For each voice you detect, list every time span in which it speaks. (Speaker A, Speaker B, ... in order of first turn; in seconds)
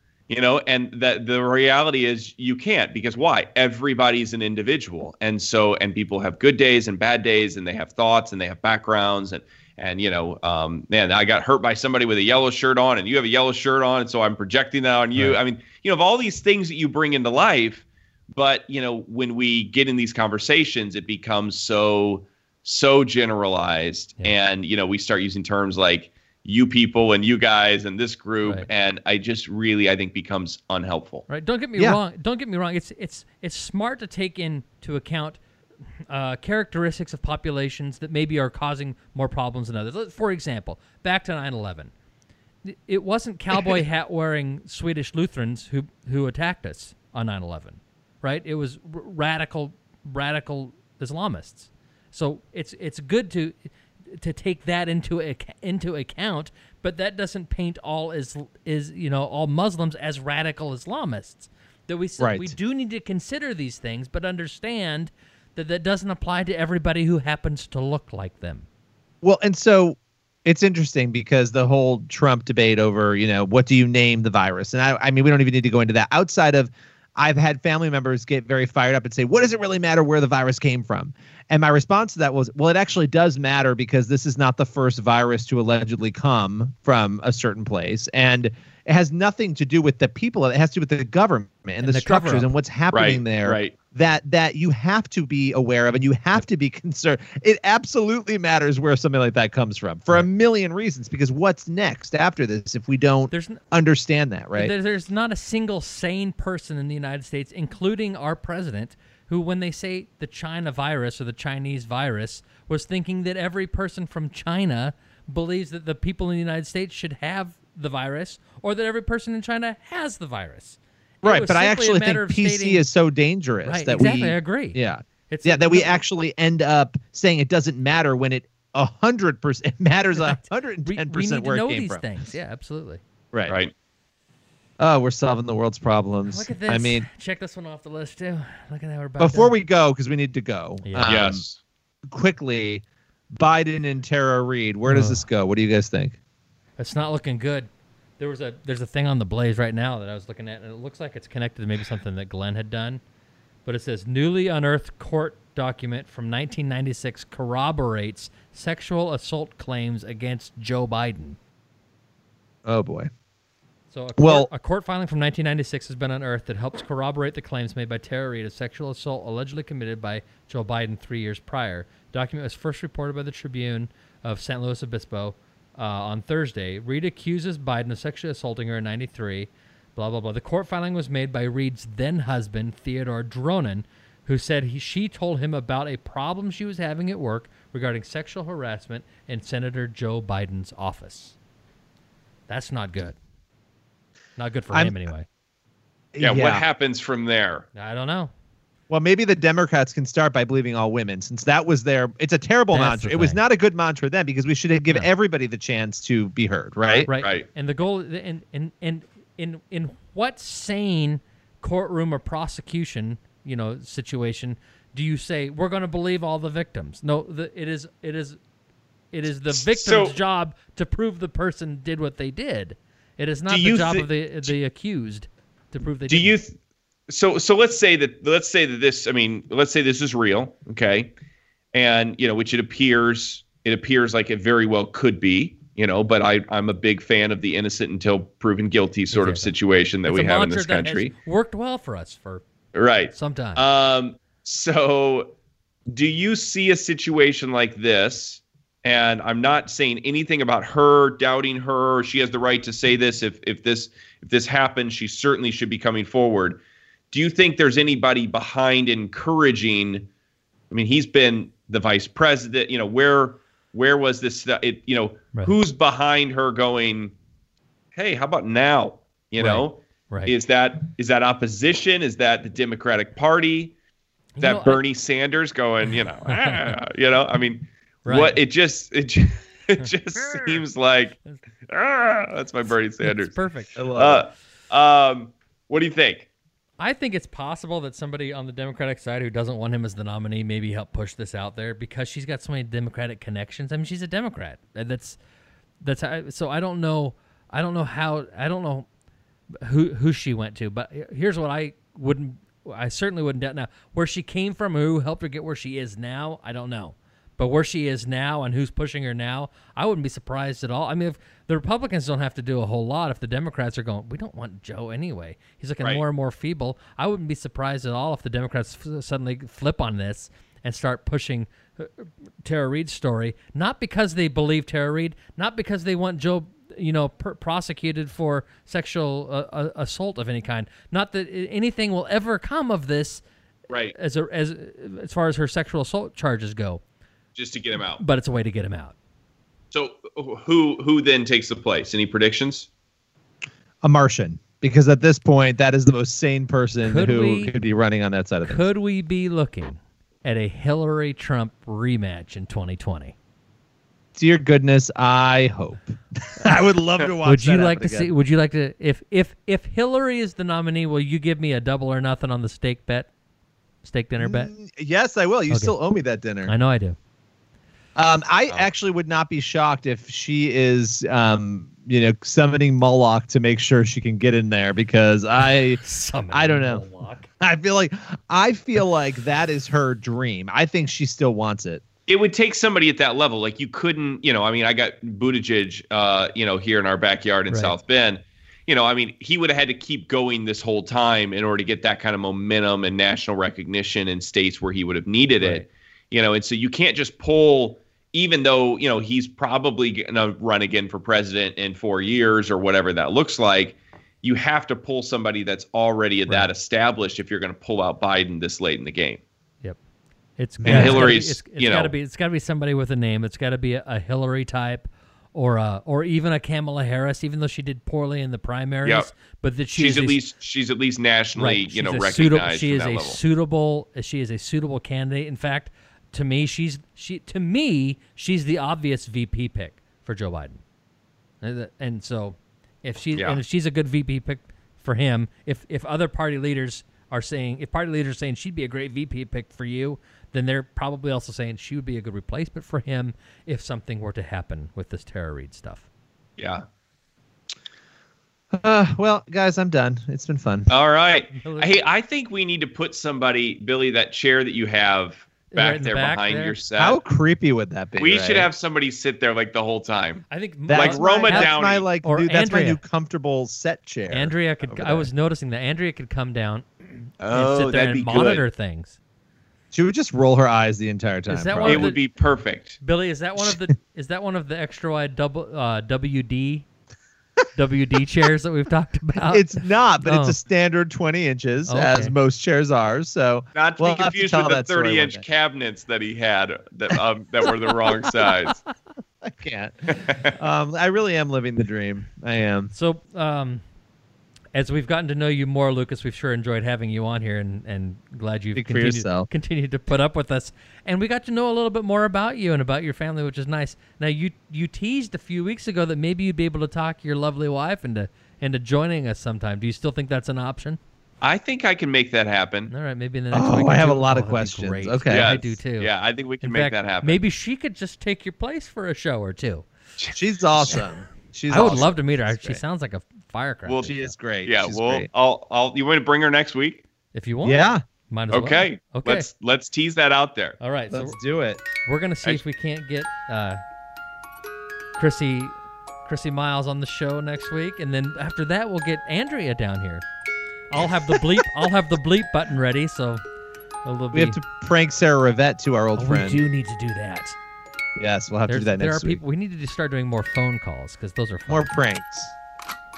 Speaker A: 0.3-31.2, 92.9-93.7, 133.5-133.7, 141.1-141.6, 196.2-197.7, 207.2-207.5, 219.5-220.2, 223.5-224.6, 226.1-226.6, 227.1-231.1, 231.7-241.1, 242.7-245.3, 245.9-256.6, 257.1-260.1, 260.7-267.1, 267.9-273.7, 274.4-286.3, 333.7-333.9, 337.4-338.0, 339.7-342.7, 382.1-409.2, 410.6-411.9, 418.8-419.1, 419.8-423.2, 433.2-433.4, 446.4-446.6, 450.7-457.0, 458.0-461.9, 467.2-468.4, 471.6-472.8, 483.6-488.6, 489.9-490.4, 511.2-512.7, 515.1-517.2, 521.5-521.9, 523.7-526.8, 528.3-530.6
Speaker B: 31.3-35.4, 36.1-41.9, 42.6-53.6, 54.1-68.7, 91.8-92.5, 103.3-103.6, 104.5-122.8, 123.7-126.0, 130.2-133.0, 136.3-139.6, 140.8-141.2, 144.9-145.2, 146.8-153.0, 153.7-161.4, 163.9-191.4, 192.5-193.2, 194.4-195.3, 197.8-198.3, 202.7-203.4, 207.0-218.4, 219.1-226.3, 239.1-239.5, 240.1-242.4, 243.1-243.6, 269.4-270.3, 274.4-274.8, 276.3-276.8, 278.1-278.4, 283.0-283.8, 286.8-295.2, 295.8-298.9, 299.6-333.2, 333.9-336.8, 338.0-338.9, 346.9-347.5, 348.5-353.1, 357.2-363.1, 363.8-364.5, 365.5-365.8, 366.4-367.0, 375.5-377.3, 387.5-387.8, 395.4-395.6, 410.4-420.2, 421.4-430.6, 431.4-445.9, 451.4-451.7, 455.5-456.6, 460.3-462.8, 464.1-469.0, 471.3-472.0, 472.8-476.7, 477.6-480.4, 481.7-482.1, 492.7-493.6, 494.6-510.8, 512.7-515.9, 516.4-519.7, 521.5-524.1, 527.1-529.3, 530.6-531.2, 531.9-533.6, 535.0-540.0, 540.7-543.2, 543.9-544.4, 546.0-547.4, 548.5-551.7
Speaker C: 62.2-62.6, 69.2-104.7, 121.2-132.1, 133.3-133.6, 134.8-137.1, 139.2-141.4, 142.1-146.2, 162.7-163.1, 164.2-164.5, 196.1-196.6, 198.9-207.1, 283.8-284.2, 343.8-348.6, 354.1-358.1, 364.2-366.5, 368.0-375.8, 376.3-376.9, 377.4-381.8, 410.6-411.2, 448.5-450.7, 456.8-458.5, 460.7-465.1, 469.7-471.9, 473.4-473.7, 479.1-485.2, 489.2-492.7, 498.6-499.3, 513.3-515.3, 520.1-522.6, 523.8-525.1, 527.4-527.8, 530.9-531.6, 544.1-546.4, 548.0-549.2, 551.5-552.3